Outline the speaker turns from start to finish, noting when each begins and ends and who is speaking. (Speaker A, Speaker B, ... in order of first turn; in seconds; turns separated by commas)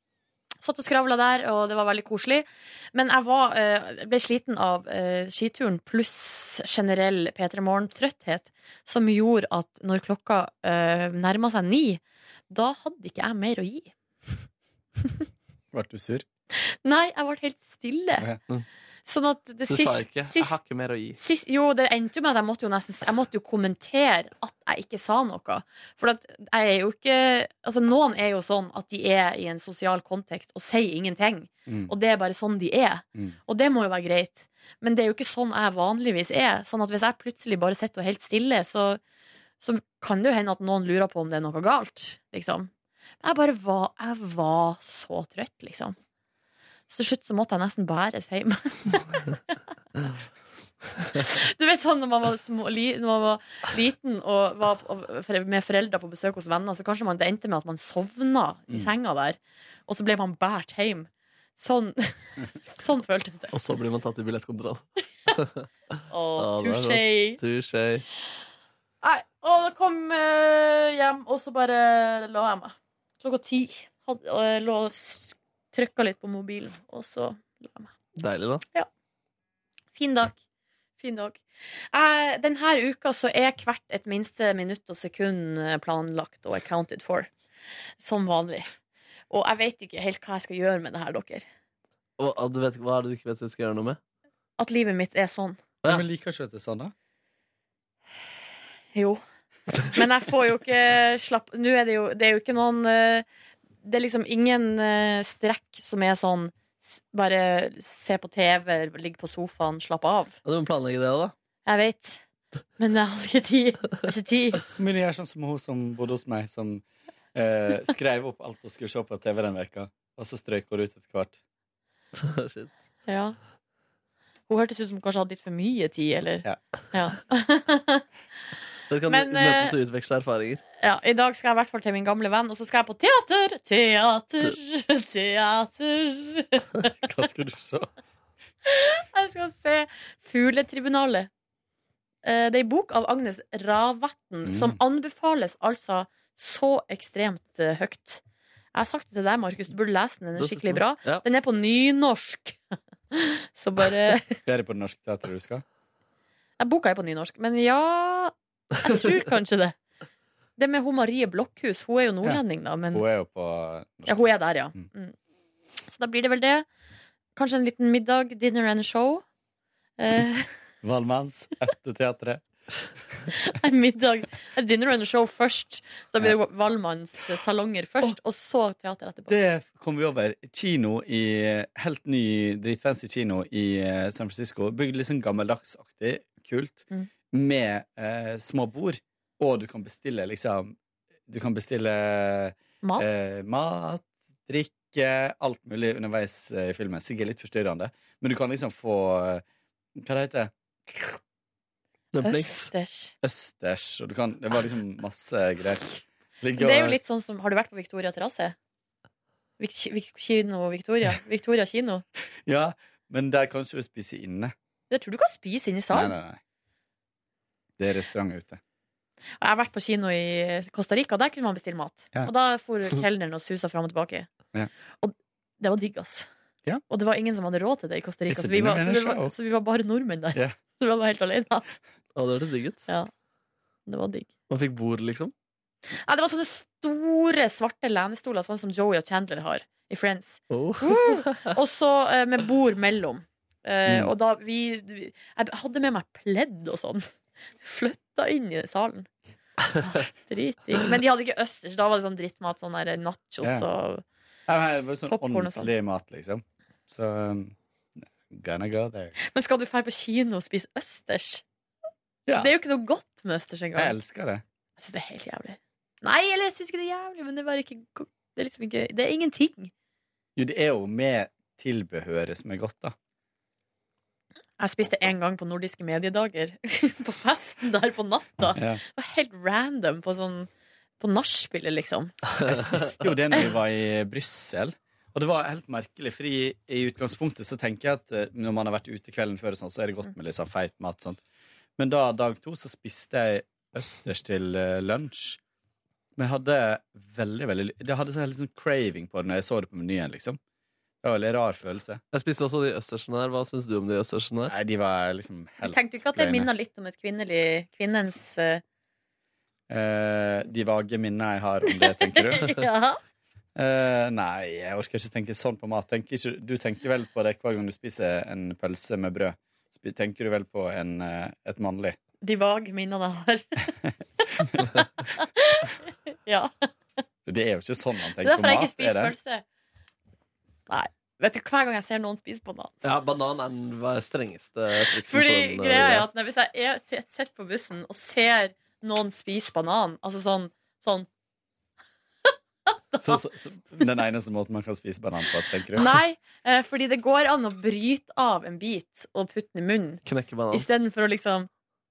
Speaker A: 0.6-13.9, Speaker B: 15.7-16.2, Speaker A: 16.5-18.3, Speaker A: 19.1-20.6, Speaker C: 19.7-21.2, Speaker A: 21.2-39.0, Speaker B: 31.7-31.9, Speaker A: 39.6-42.7, Speaker A: 43.2-46.0, Speaker A: 46.9-49.6, Speaker A: 51.2-63.5, Speaker C: 63.5-65.7, Speaker A: 66.1-67.4, Speaker C: 66.4-68.1, Speaker A: 69.0-77.9, Speaker C: 78.2-78.6, Speaker A: 80.0-80.4, Speaker A: 81.0-81.4, Speaker A: 81.9-87.3, Speaker A: 88.0-88.7, Speaker A: 89.3-91.5, Speaker C: 92.2-94.0, Speaker A: 94.6-95.6, Speaker B: 95.9-96.9, Speaker A: 99.0-99.2, Speaker A: 99.9-103.2, Speaker A: 103.8-110.4, Speaker C: 110.5-111.3, Speaker A: 111.7-112.2, Speaker A: 112.8-114.7, Speaker B: 114.8-116.8, Speaker B: 117.3-121.4, Speaker C: 122.2-122.7, Speaker A: 123.1-123.4, Speaker A: 124.5-128.1, Speaker C: 128.9-130.6, Speaker A: 129.1-129.8, Speaker A: 130.8-136.9, Speaker B: 137.0-137.9, Speaker A: 138.7-141.3, Speaker A: 142.2-148.2, Speaker B: 144.4-144.8, Speaker A: 148.7-152.6, Speaker C: 150.4-151.2, Speaker A: 153.1-154.3, Speaker B: 154.5-155.6, Speaker A: 156.6-159.8, Speaker A: 160.6-163.1, Speaker B: 162.2-164.9, Speaker A: 164.1-165.2, Speaker A: 165.8-166.7, Speaker A: 167.4-169.2, Speaker A: 170.0-170.5, Speaker B: 170.8-172.4, Speaker A: 173.4-179.4, Speaker B: 179.3-190.8, Speaker B: 191.3-199.4, Speaker A: 192.8-193.1, Speaker B: 200.0-200.5, Speaker C: 202.1-202.7, Speaker A: 202.2-203.1, Speaker B: 203.2-207.0, Speaker A: 206.6-208.6, Speaker A: 209.6-212.0, Speaker B: 212.5-214.5, Speaker A: 214.9-216.2, Speaker B: 215.9-216.4, Speaker B: 217.8-218.6, Speaker A: 219.4-224.3, Speaker A: 225.0-226.3, Speaker A: 226.9-231.7, Speaker B: 228.3-229.3, Speaker C: 232.2-232.8, Speaker A: 233.9-234.3, Speaker C: 234.5-235.3, Speaker A: 236.1-247.1, Speaker C: 240.5-241.5, Speaker A: 247.6-249.1, Speaker A: 249.8-254.0, Speaker B: 253.4-253.7, Speaker B: 254.5-259.1, Speaker A: 255.1-255.7, Speaker A: 259.2-261.4, Speaker B: 262.3-262.5, Speaker A: 262.4-264.0, Speaker B: 263.8-264.4, Speaker A: 264.8-269.7, Speaker B: 270.4-272.9, Speaker A: 274.6-280.5, Speaker B: 278.6-278.8, Speaker A: 281.0-282.1, Speaker B: 282.5-291.2, Speaker B: 291.8-295.4, Speaker B: 296.2-300.4, Speaker B: 301.0-302.0, Speaker C: 302.1-304.6, Speaker B: 304.5-306.5, Speaker A: 305.6-308.6, Speaker B: 309.7-312.6, Speaker A: 311.7-313.0, Speaker B: 313.6-322.0, Speaker A: 322.2-325.7, Speaker A: 326.2-326.5, Speaker B: 327.3-329.1, Speaker A: 328.2-329.4, Speaker A: 330.7-332.8, Speaker C: 332.8-336.1, Speaker A: 335.1-341.1, Speaker A: 342.9-343.2, Speaker B: 343.0-345.9, Speaker A: 345.8-351.5, Speaker C: 350.1-350.7